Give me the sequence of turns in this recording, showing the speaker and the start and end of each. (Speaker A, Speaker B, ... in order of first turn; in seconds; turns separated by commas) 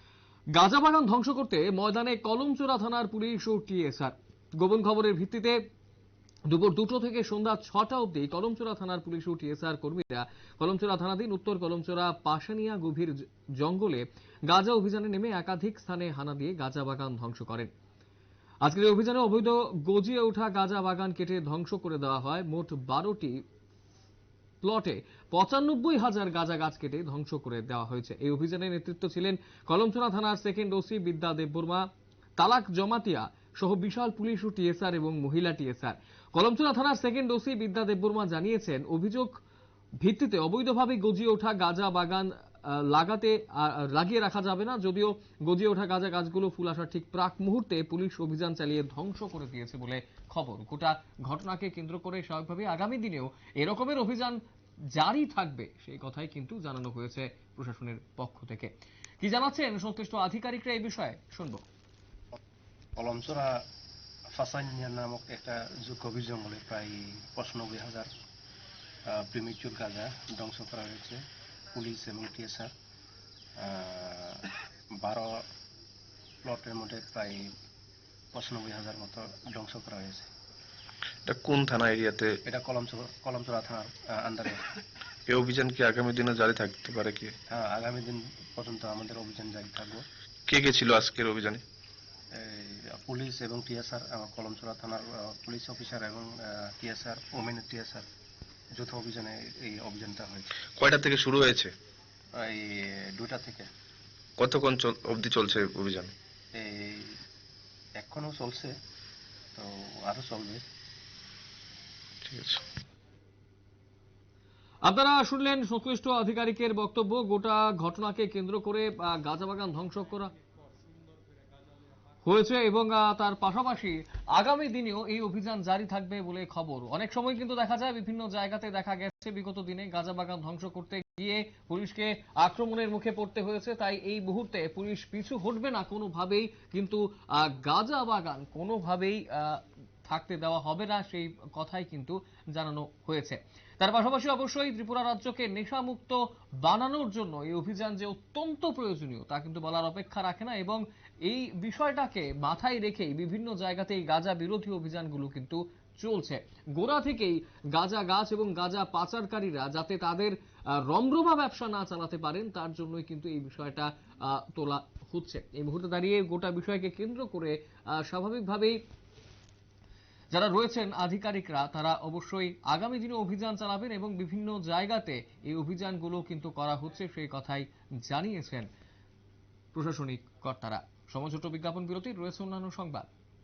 Speaker A: 0.5-5.6, Speaker A: 6.5-17.7, Speaker A: 18.6-23.4, Speaker A: 24.6-31.9, Speaker A: 32.4-39.3, Speaker A: 40.0-54.4, Speaker A: 54.9-61.6, Speaker B: 63.0-63.6, Speaker B: 64.4-68.1, Speaker B: 69.1-71.2, Speaker B: 71.7-72.7, Speaker B: 73.6-74.5, Speaker B: 75.0-75.4, Speaker B: 76.4-77.5, Speaker B: 78.3-80.3, Speaker C: 81.2-82.4, Speaker B: 82.4-84.7, Speaker C: 85.3-87.3, Speaker B: 87.5-90.0, Speaker C: 90.5-91.6, Speaker B: 92.3-98.1, Speaker B: 98.8-100.5, Speaker C: 100.8-101.7, Speaker B: 102.4-103.7, Speaker C: 104.4-106.1, Speaker B: 106.5-107.2, Speaker B: 108.0-108.7, Speaker B: 109.5-110.6, Speaker C: 112.2-112.6, Speaker A: 114.8-120.3, Speaker A: 122.2-168.8, Speaker A: 170.3-178.7, Speaker A: 179.7-183.1